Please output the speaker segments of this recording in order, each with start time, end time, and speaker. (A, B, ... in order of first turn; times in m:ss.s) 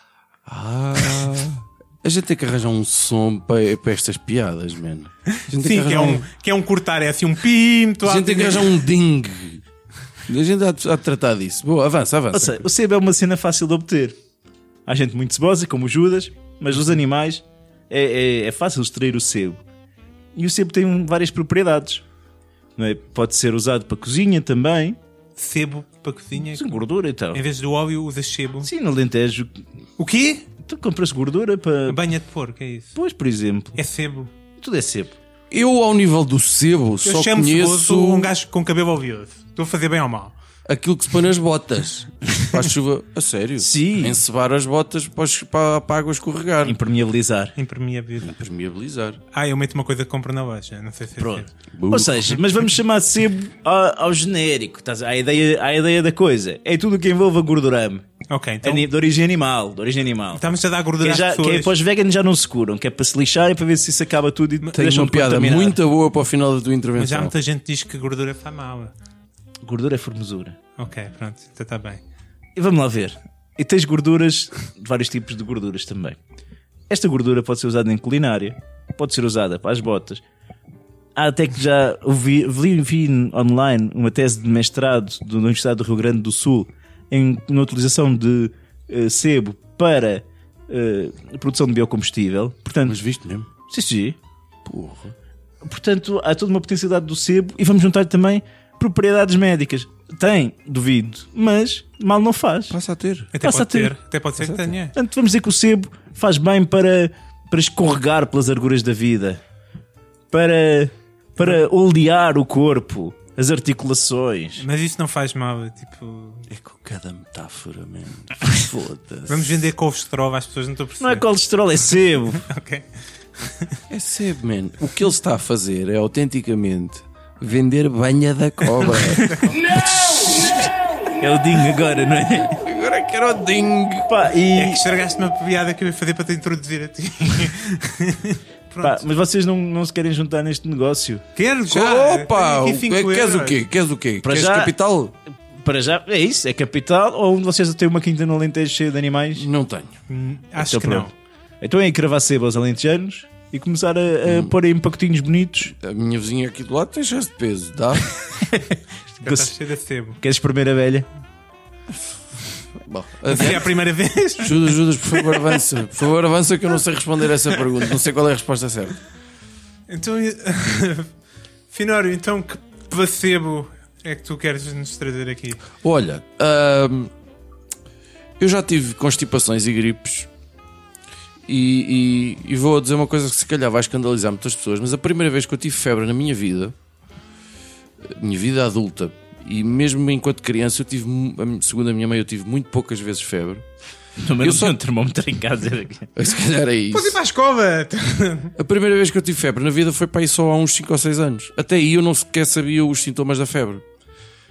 0:00.5-0:06.3 A
0:05.5-0:08.8 B
0:08.0-0:09.6 A
0:10.3-0:12.7 A
0:12.3-0:14.2 C
0:14.9-0:19.6 C
0:20.4-0:22.0 C
0:22.8-0:25.0 C
0:25.4-0:26.8 B
0:26.4-0:27.4 C
0:27.3-0:28.7 B
0:28.6-0:29.6 C
0:30.0-0:30.5 B
0:30.6-0:32.0 C
0:31.9-0:33.0 B
0:33.0-0:33.8 C
0:33.8-0:34.3 B
0:34.6-0:35.2 C
0:35.5-0:38.3 A
0:37.0-0:40.4 B
0:40.7-0:46.8 A
0:43.6-0:44.2 C
0:46.6-0:47.5 C
0:47.6-0:48.4 B
0:48.2-0:49.2 A
0:49.3-0:51.5 B
0:51.2-0:58.1 C
0:51.7-0:52.3 A
0:58.3-0:58.9 B
0:58.6-1:00.4 C
1:00.4-1:01.7 B
1:01.0-1:05.8 C
1:04.7-1:07.3 A
1:07.0-1:08.9 B
1:09.6-1:10.6 C
1:10.8-1:12.0 B
1:12.6-1:16.2 C
1:16.9-1:20.2 C
1:21.2-1:33.0 C
1:32.9-1:33.5 A
1:33.7-1:34.2 C
1:34.6-1:35.1 A
1:35.6-1:42.8 C
1:42.7-1:43.3 A
1:43.3-1:45.0 B
1:43.4-1:44.0 C
1:44.4-1:44.7 A
1:44.9-1:49.4 C
1:50.3-1:54.6 C
1:54.6-1:56.5 B
1:56.5-1:59.6 A
1:59.3-2:01.3 B
2:01.0-2:02.4 C
2:02.3-2:02.9 B
2:03.4-2:03.8 B
2:03.9-2:10.7 A
2:08.9-2:09.6 B
2:09.0-2:09.5 C
2:11.2-2:12.6 C
2:12.5-2:14.1 A
2:14.1-2:14.8 C
2:14.6-2:19.0 B
2:18.8-2:21.2 C
2:21.4-2:23.6 B
2:21.7-2:25.2 A
2:24.2-2:24.7 C
2:25.6-2:29.5 C
2:29.3-2:29.9 A
2:30.1-2:31.1 B
2:30.6-2:35.8 C
2:34.2-2:34.5 A
2:35.8-2:38.1 A
2:38.4-2:39.6 C
2:39.2-2:40.2 B
2:40.2-2:41.1 C
2:42.8-2:43.7 A
2:43.3-2:45.6 B
2:44.4-2:49.0 A
2:49.9-2:51.1 B
2:51.7-2:55.6 B
2:55.8-2:57.1 A
2:58.4-3:00.3 A
3:01.5-3:06.8 A
3:08.0-3:13.6 A
3:14.2-3:16.1 C
3:14.4-3:14.8 A
3:16.2-3:17.2 A
3:16.9-3:18.6 B
3:18.6-3:23.8 A